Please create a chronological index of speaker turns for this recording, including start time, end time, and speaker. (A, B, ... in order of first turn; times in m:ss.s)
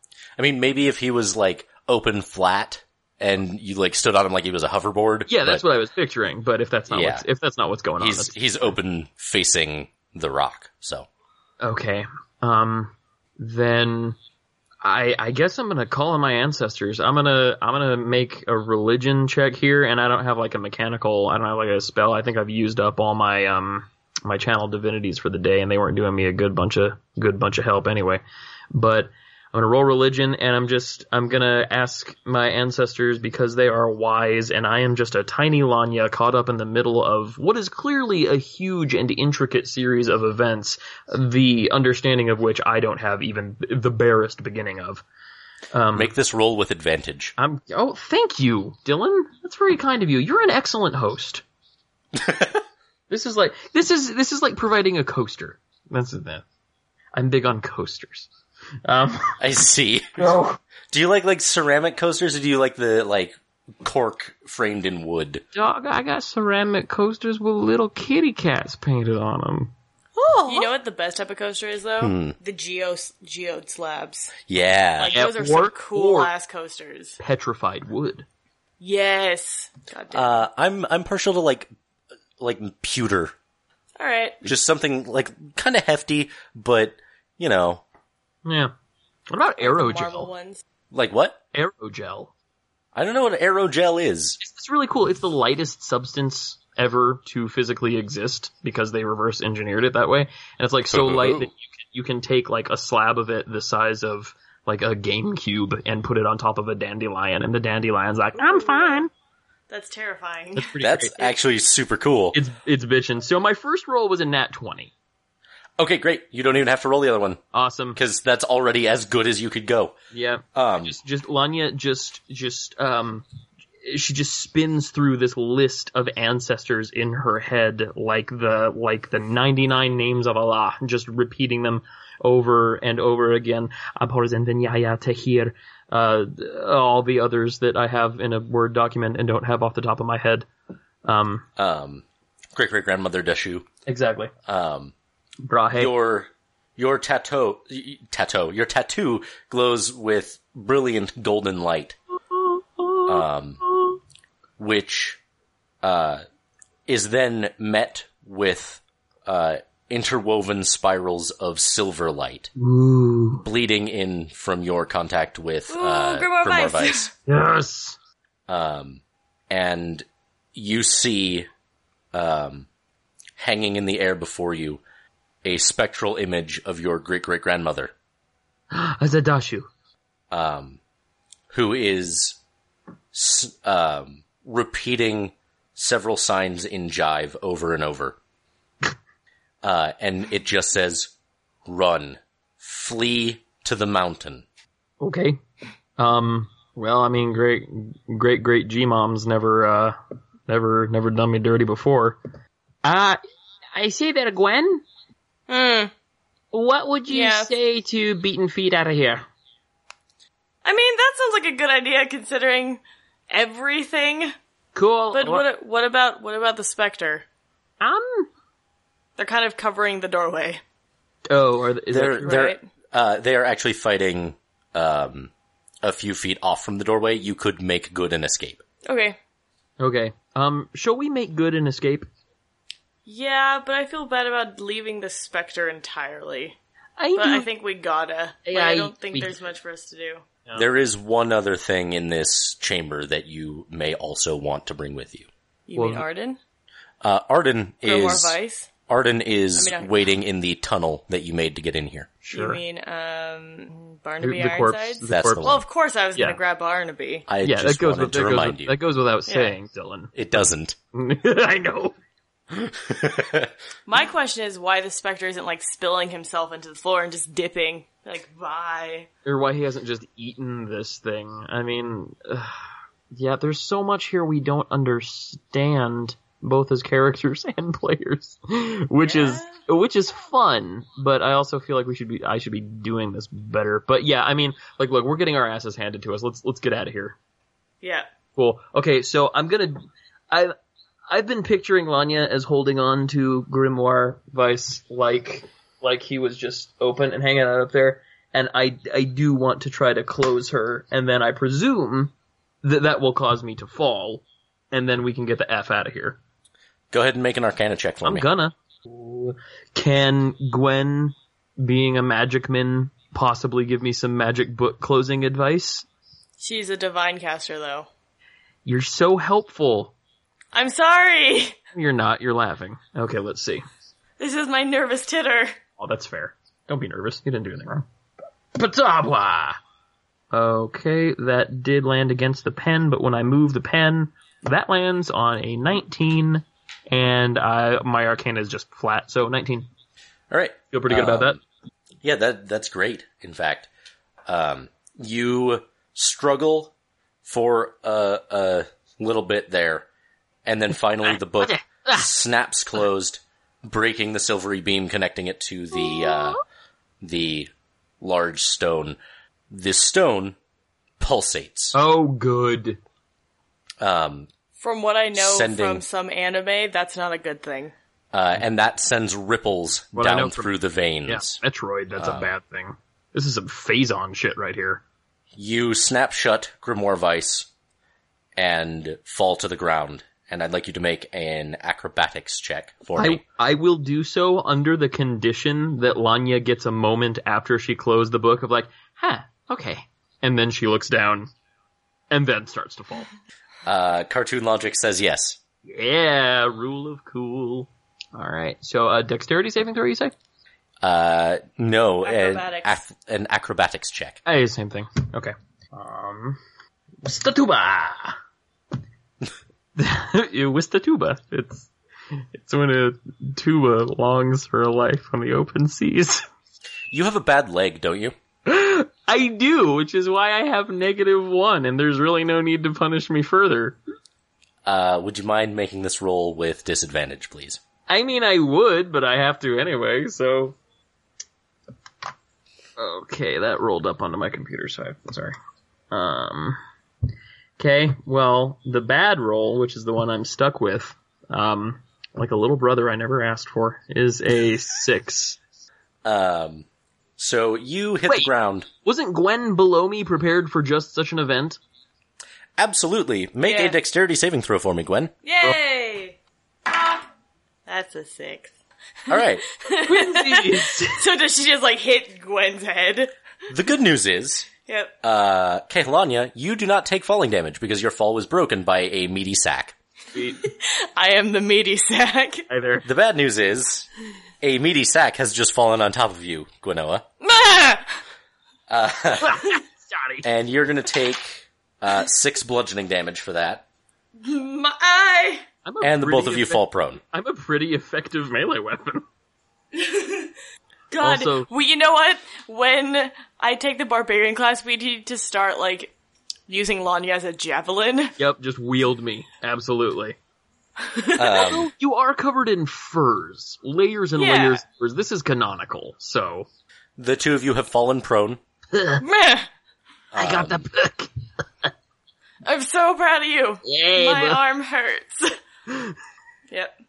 0:00.4-0:05.6 A
0:05.3-0:08.3 B
0:06.9-0:07.2 A
0:08.0-0:11.1 A
0:11.6-0:14.2 B
0:14.8-0:28.2 B
0:28.7-0:45.0 B
0:45.7-0:46.1 B
0:45.9-0:47.3 A
0:47.4-0:51.4 B
0:52.1-0:52.6 A
0:53.1-0:56.4 B
0:57.1-0:58.3 B
0:58.8-0:59.4 B
0:59.4-1:00.3 A
1:00.2-1:00.6 B
1:00.9-1:05.4 A
1:05.5-1:10.7 B
1:10.5-1:14.4 C
1:12.0-1:12.3 A
1:14.5-1:15.2 A
1:15.0-1:17.2 C
1:15.1-1:16.3 B
1:17.2-1:18.2 B
1:18.8-1:20.4 C
1:20.1-1:21.7 A
1:22.4-1:23.3 A
1:24.0-1:24.4 C
1:24.4-1:27.8 A
1:28.4-1:28.7 B
1:29.3-1:30.3 B
1:29.6-1:30.6 C
1:30.9-1:31.4 A
1:31.5-1:32.3 B
1:32.9-1:34.4 A
1:34.4-1:49.1 B
1:40.9-1:41.5 A
1:48.4-1:49.0 C
1:49.7-1:51.4 C
1:50.5-1:51.2 B
1:50.8-1:52.4 A
1:52.3-1:54.9 B
1:55.8-1:57.4 A
1:57.5-1:58.0 B
1:57.9-2:00.0 A
2:00.1-2:03.2 B
2:00.5-2:01.0 A
2:03.8-2:20.5 B
2:21.0-2:21.4 B
2:21.6-2:23.7 A
2:23.8-2:24.3 B
2:24.4-2:24.9 A
2:25.4-2:25.9 B
2:25.8-2:32.0 A
2:32.4-2:33.2 B
2:33.0-2:33.6 A
2:34.6-2:35.2 A
2:35.8-2:36.2 A
2:36.9-2:42.5 A
2:42.6-2:43.4 B
2:43.4-2:47.1 A
2:45.7-2:47.1 C
2:47.3-2:48.0 B
2:48.5-2:51.5 A
2:52.1-2:52.7 A
2:53.4-2:54.8 A
2:55.4-2:57.9 A
2:58.7-2:59.7 B
3:00.3-3:00.8 A
3:01.5-3:02.4 A
3:03.1-3:08.2 A
3:09.6-3:11.1 A
3:11.6-3:14.4 A
3:15.0-3:15.4 B
3:16.0-3:20.0 B
3:20.5-3:22.2 B
3:22.8-3:23.2 B
3:23.7-3:24.8 B
3:25.5-3:25.9 C
3:26.5-3:29.2 B
3:27.1-3:27.5 C
3:30.6-3:34.3 C
3:34.7-3:35.4 B
3:35.1-3:37.2 C
3:37.8-3:38.3 B
3:39.2-3:40.6 C
3:41.3-3:42.4 B
3:41.9-3:45.3 A
3:42.2-3:42.6 C
3:45.8-3:48.6 A
3:48.8-3:49.2 C
3:49.8-3:52.1 B
3:53.0-3:56.6 C
3:57.0-3:57.5 B
3:57.2-4:00.2 C
3:58.4-3:59.3 B
4:00.5-4:05.3 A
4:05.7-4:06.4 C
4:05.7-4:06.0 B
4:07.0-4:08.4 A
4:07.8-4:08.7 C
4:08.9-4:12.1 A
4:09.6-4:09.9 C
4:12.2-4:12.6 B
4:12.3-4:17.3 C
4:14.2-4:15.5 B
4:15.1-4:15.6 A
4:17.3-4:18.8 A
4:17.4-4:20.1 B
4:19.3-4:19.5 C
4:20.1-4:20.8 A
4:20.9-4:21.9 B
4:22.6-4:23.5 A
4:23.9-4:29.1 C
4:29.2-4:47.2 B
4:39.0-4:39.6 C
4:48.4-4:50.5 B
4:51.1-5:06.2 B
5:06.9-5:08.2 A
5:08.0-5:15.8 B
5:16.4-5:17.9 C
5:18.6-5:19.9 B
5:20.5-5:21.6 C
5:21.7-5:23.6 B
5:24.2-5:25.5 C
5:25.8-5:27.8 B
5:28.5-5:29.6 B
5:30.3-5:39.7 B
5:40.3-5:41.4 A
5:40.7-5:41.4 B
5:42.0-5:43.7 A
5:44.3-5:46.7 A
5:47.2-5:49.9 A
5:50.4-5:56.4 A
5:51.0-5:52.1 B
5:55.7-5:56.4 B
5:57.0-5:59.0 A
5:59.5-6:00.4 A
6:01.0-6:01.8 A
6:01.7-6:02.8 B
6:03.8-6:04.3 A
6:04.6-6:07.7 C
6:05.1-6:05.8 A
6:08.1-6:11.4 A
6:09.9-6:10.5 B
6:11.0-6:14.8 B
6:12.0-6:12.3 A
6:15.4-6:17.5 A
6:18.4-6:23.2 A
6:23.0-6:31.3 B
6:32.1-6:33.1 B
6:33.6-6:35.4 A
6:35.6-6:40.1 B
6:40.8-6:44.2 A
6:42.0-6:42.8 C
6:44.2-6:46.4 B
6:47.0-6:48.2 B
6:49.8-6:51.7 B
6:52.3-6:56.2 B
6:56.9-6:58.2 A
6:58.4-7:03.8 B
7:04.6-7:07.6 A
7:07.9-7:10.6 B
7:12.8-7:15.4 B
7:15.9-7:16.6 B
7:17.6-7:25.4 B
7:26.0-7:26.6 A
7:27.2-7:28.7 A
7:28.8-7:31.6 B
7:32.6-7:35.1 A
7:33.4-7:33.8 C
7:35.2-7:37.0 C
7:37.7-7:38.5 C
7:39.1-7:39.4 A
7:39.1-7:43.1 C
7:39.8-7:41.0 B
7:43.5-7:44.5 A
7:44.6-7:44.9 C
7:45.0-7:49.7 A
7:50.1-7:50.4 B
7:50.4-7:52.5 C
7:52.5-7:52.8 B
7:52.8-7:53.9 A
7:54.4-7:57.0 A
7:57.2-7:58.0 C
7:58.7-7:59.5 A
7:59.2-8:00.2 B
8:00.2-8:03.6 A
8:04.2-8:05.5 C
8:05.6-8:09.0 B
8:05.8-8:07.0 A
8:09.7-8:10.3 C
8:10.9-8:15.9 C
8:11.0-8:11.5 B
8:16.5-8:18.1 C
8:18.2-8:20.2 B
8:20.8-8:21.4 C
8:21.2-8:21.7 A
8:21.3-8:26.5 B
8:24.2-8:24.6 C
8:27.0-8:28.4 A
8:28.7-8:29.0 B
8:29.0-8:29.5 C
8:30.1-8:30.6 A
8:30.1-8:31.1 B
8:32.4-8:35.4 C
8:33.6-8:34.4 B
8:35.7-8:35.9 B